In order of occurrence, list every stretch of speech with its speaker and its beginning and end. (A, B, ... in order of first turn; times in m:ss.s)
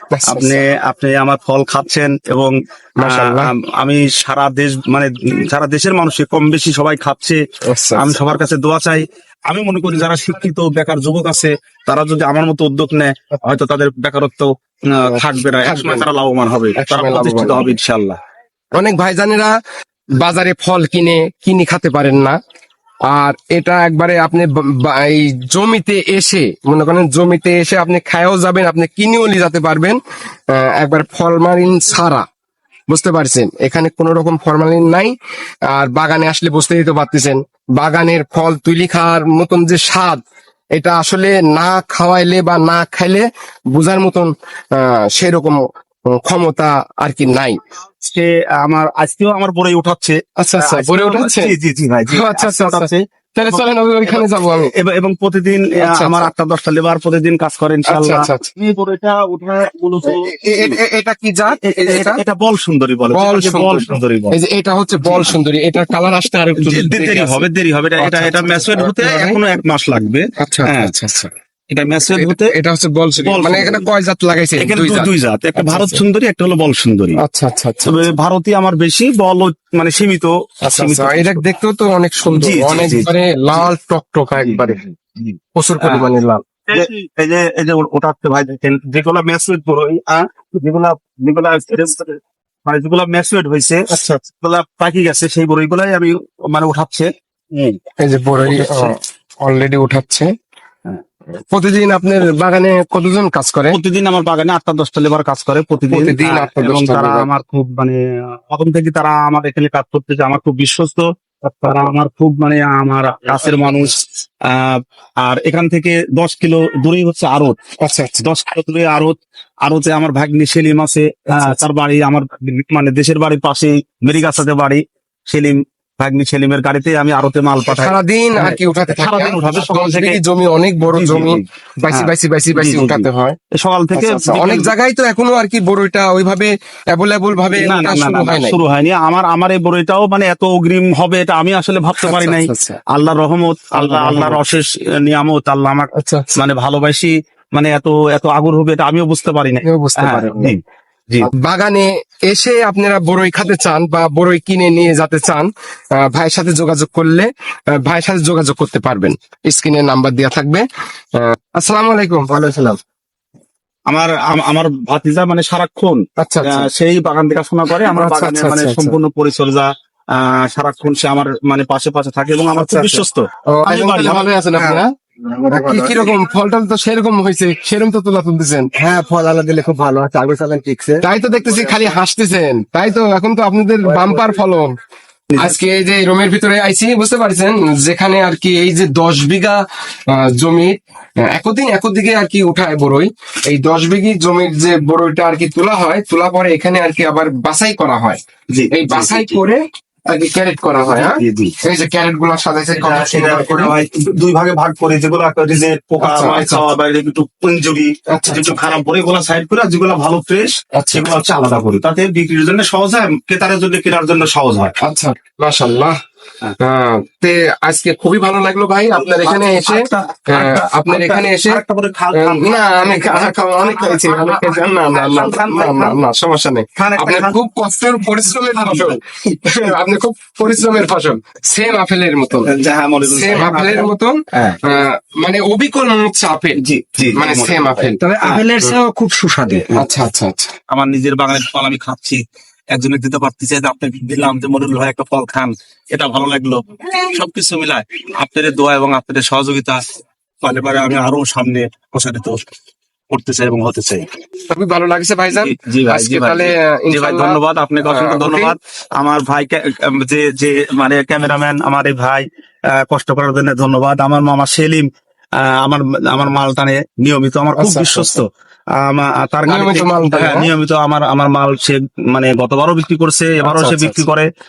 0:00.1-0:00.6 A
0:00.3-0:07.4 B
0:03.0-0:03.5 A
0:07.7-0:08.2 A
0:08.0-0:18.2 B
0:15.1-0:16.0 A
0:16.8-0:17.8 A
0:18.7-0:19.6 A
0:20.2-0:22.4 A
0:23.1-0:32.2 A
0:32.9-0:35.2 A
0:35.7-0:40.2 A
0:40.7-0:47.6 A
0:48.0-1:00.8 B
0:50.4-0:51.5 A
0:52.1-0:54.7 A
0:55.8-0:56.3 A
0:57.9-0:58.5 A
1:00.0-1:02.2 A
1:01.6-1:04.4 B
1:03.1-1:07.4 A
1:05.0-1:05.3 B
1:06.6-1:10.9 B
1:08.0-1:09.4 A
1:10.4-1:11.3 A
1:11.7-1:12.5 B
1:12.2-1:16.0 A
1:13.2-1:13.8 B
1:14.6-1:17.2 B
1:17.2-1:18.1 A
1:17.9-1:21.4 B
1:20.6-1:24.8 A
1:22.2-1:23.6 B
1:24.4-1:26.1 B
1:25.6-1:26.4 A
1:26.7-1:37.8 B
1:33.9-1:34.2 A
1:38.0-1:40.3 A
1:38.4-1:38.9 B
1:41.4-1:43.8 A
1:43.7-1:57.6 B
1:45.9-1:47.3 A
1:57.8-1:58.2 A
1:58.2-2:10.2 B
2:01.3-2:01.6 A
2:07.7-2:13.4 A
2:10.9-2:14.7 B
2:13.9-2:18.6 A
2:17.5-2:31.3 B
2:22.0-2:22.8 A
2:23.8-2:24.4 A
2:25.9-2:26.3 A
2:29.6-2:30.6 A
2:31.2-2:42.3 A
2:42.3-2:42.8 C
2:43.9-2:54.3 B
2:46.2-2:46.7 A
2:47.9-2:48.9 A
2:52.6-2:54.9 A
2:54.6-2:56.1 C
2:55.5-2:58.7 A
2:58.7-3:01.8 C
3:01.0-3:04.7 A
3:03.8-3:04.4 C
3:05.4-3:18.2 A
3:18.5-3:19.4 B
3:18.7-3:23.7 A
3:20.9-3:21.6 B
3:22.8-3:34.8 B
3:26.0-3:26.6 A
3:28.1-3:28.6 A
3:30.8-3:31.1 A
3:34.8-3:36.0 A
3:36.6-3:41.6 A
3:39.0-3:46.0 B
3:42.1-3:52.5 A
3:46.8-3:47.4 B
3:48.7-3:49.6 B
3:52.4-3:54.6 B
3:53.1-3:56.6 A
3:56.6-3:58.7 B
3:57.1-3:58.0 A
3:58.0-3:59.7 C
3:59.7-4:00.5 A
4:00.7-4:09.8 B
4:10.4-4:12.4 B
4:13.1-4:14.1 B
4:14.5-4:18.6 A
4:15.4-4:34.3 B
4:27.6-4:28.2 A
4:29.5-4:30.5 A
4:33.4-4:34.0 A